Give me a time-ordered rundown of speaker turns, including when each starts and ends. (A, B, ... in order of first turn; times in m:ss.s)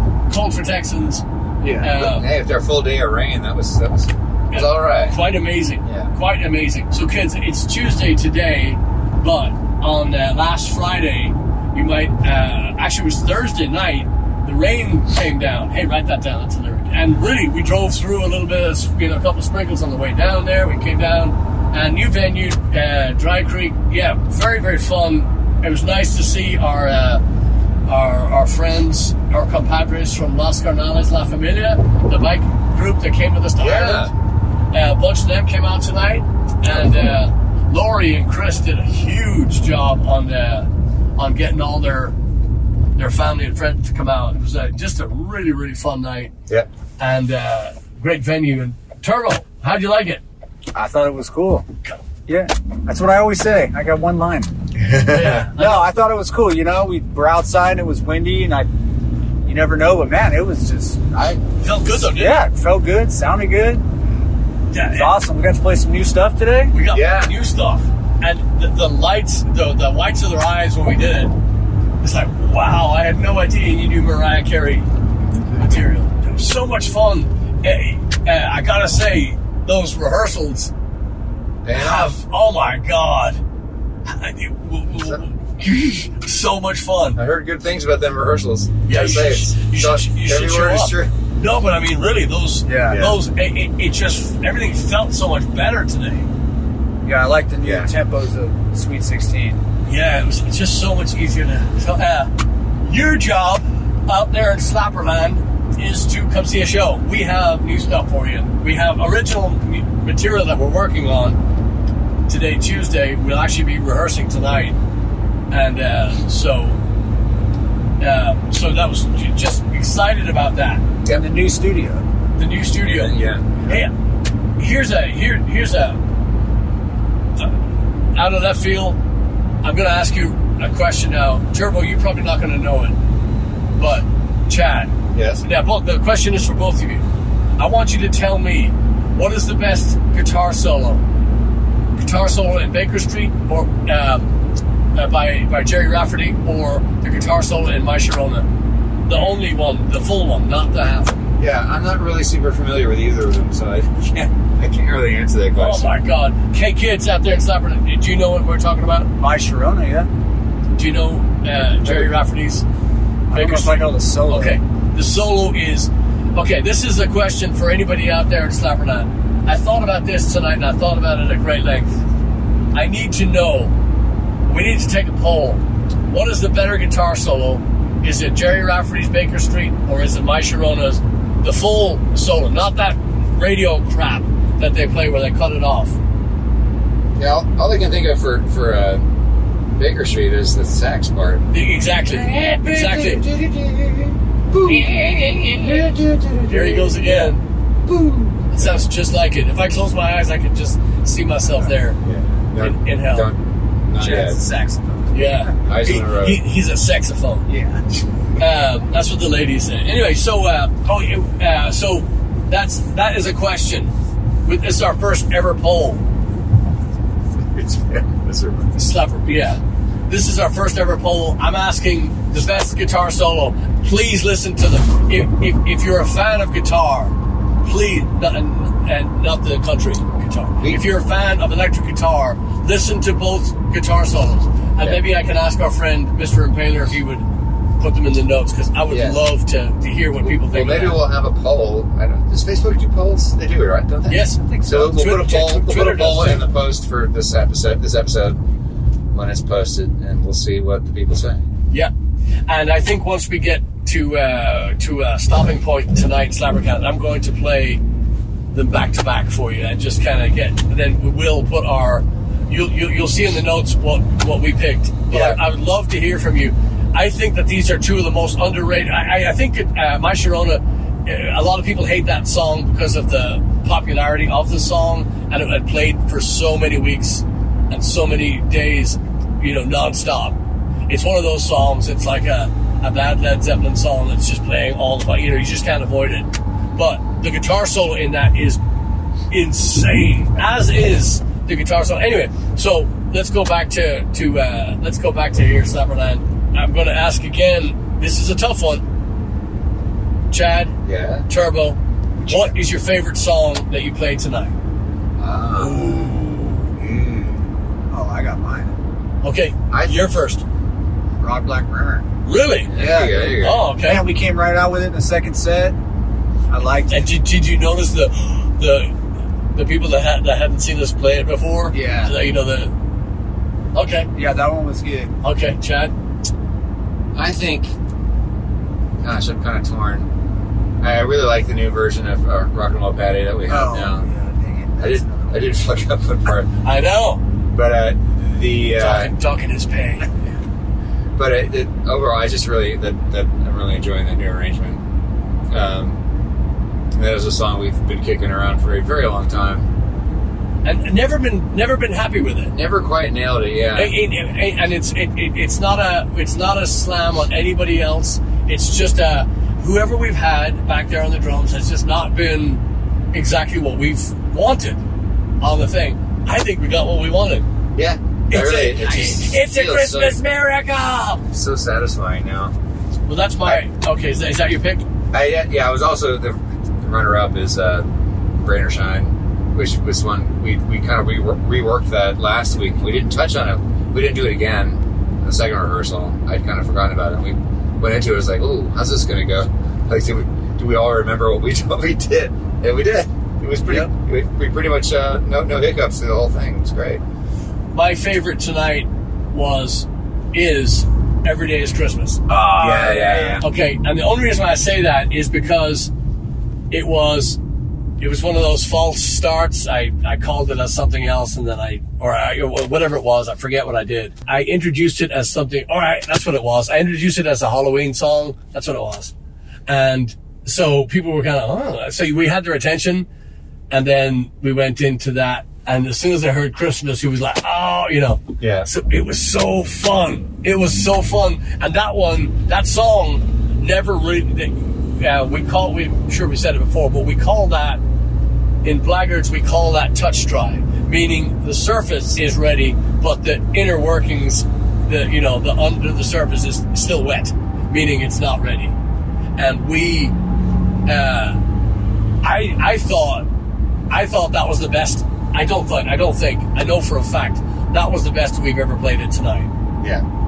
0:00.3-0:01.2 A
0:01.6-0:01.9 B
0:01.8-0:02.3 A
0:01.9-0:05.2 C
0:04.5-0:27.2 A
0:05.8-0:06.1 C
0:27.9-0:34.1 A
0:33.6-0:34.1 C
0:34.7-0:42.2 A
0:43.0-0:46.3 A
0:47.0-0:50.2 A
0:50.7-0:51.6 B
0:52.3-0:54.5 B
0:54.8-0:55.5 C
0:55.1-0:55.9 A
0:55.6-0:58.7 B
0:59.4-1:01.4 B
1:01.6-1:02.4 A
1:01.9-1:03.8 B
1:04.7-1:05.1 A
1:04.9-1:06.7 B
1:06.7-1:11.3 A
1:06.9-1:07.3 C
1:12.0-1:14.9 A
1:15.6-1:20.7 A
1:21.6-1:22.1 C
1:21.7-1:23.4 A
1:24.1-1:27.2 A
1:27.1-1:31.1 C
1:28.9-1:36.3 A
1:32.6-1:33.0 B
1:32.9-1:33.2 C
1:37.0-1:39.6 B
1:37.6-1:37.9 C
1:39.8-1:42.3 A
1:42.8-1:51.4 A
1:52.3-1:54.8 A
1:55.5-1:56.8 A
1:58.0-2:00.8 A
2:01.1-2:02.1 B
2:02.4-2:03.9 A
2:02.8-2:03.6 C
2:04.6-2:06.0 A
2:08.1-2:09.0 A
2:09.6-2:13.0 A
2:13.8-2:17.0 A
2:15.1-2:15.4 C
2:17.6-2:21.0 A
2:22.0-2:24.3 A
2:24.9-2:28.5 A
2:29.0-2:31.2 A
2:31.4-2:35.9 C
2:35.5-2:39.1 A
2:39.2-2:40.1 B
2:40.7-2:42.6 A
2:41.8-2:42.1 C
2:43.3-2:44.6 B
2:43.3-2:52.0 A
2:52.7-2:53.7 A
2:54.4-3:06.0 A
3:07.2-3:09.0 C
3:09.8-3:11.5 C
3:11.5-3:13.2 A
3:12.1-3:18.8 C
3:14.6-3:15.9 A
3:16.5-3:17.4 A
3:18.5-3:22.0 A
3:22.0-3:24.4 C
3:22.6-3:23.3 A
3:24.0-3:25.5 B
3:25.1-3:27.4 A
3:25.6-3:26.4 C
3:27.5-3:27.8 B
3:28.4-3:33.9 A
3:34.4-3:36.0 A
3:37.4-3:38.8 C
3:38.8-3:57.2 A
3:50.6-3:50.9 C
3:57.8-4:01.0 A
3:58.9-3:59.2 C
4:00.2-4:08.4 C
4:04.1-4:06.5 A
4:04.1-4:04.9 B
4:09.1-4:11.4 C
4:12.5-4:17.8 A
4:18.5-4:40.4 A
4:25.1-4:25.4 C
4:40.9-4:48.6 A
4:49.3-4:58.8 A
5:00.3-5:00.7 A
5:00.8-5:01.3 C
5:01.3-5:04.5 A
5:02.2-5:02.5 B
5:05.2-5:07.5 C
5:05.6-5:06.6 A
5:07.9-5:08.7 B
5:09.2-5:10.4 A
5:09.7-5:10.1 C
5:11.2-5:12.0 B
5:12.2-5:12.7 A
5:12.7-5:13.6 C
5:12.7-5:15.8 B
5:13.4-5:14.0 A
5:16.5-5:17.1 B
5:16.9-5:18.9 A
5:19.5-5:22.7 A
5:21.7-5:22.1 B
5:23.7-5:24.1 A
5:24.1-5:25.1 B
5:25.2-5:25.9 A
5:27.1-5:27.7 C
5:29.0-5:30.1 C
5:30.8-5:34.1 C
5:33.5-5:35.5 B
5:34.8-5:36.5 C
5:36.6-5:37.2 A
5:37.5-5:39.1 C
5:38.7-5:40.1 A
5:41.2-5:44.8 C
5:45.5-5:46.0 C
5:46.9-5:49.7 C
5:50.6-5:52.5 A
5:52.5-5:53.9 C
5:53.7-6:04.8 A
6:05.4-6:07.4 A
6:07.8-6:10.2 C
6:08.3-6:11.2 A
6:11.3-6:12.5 C
6:13.1-6:14.8 A
6:15.1-6:17.9 C
6:18.4-6:37.0 C
6:37.7-6:45.9 A
6:42.6-6:43.4 C
6:42.6-6:43.4 B
6:46.7-6:47.4 A
6:48.0-6:59.1 A
6:59.7-7:03.1 A
7:03.7-7:17.8 A
7:08.4-7:08.7 C
7:18.6-7:28.7 A
7:29.4-7:30.1 A
7:30.8-7:31.4 A
7:32.2-7:33.2 A
7:33.9-7:39.5 A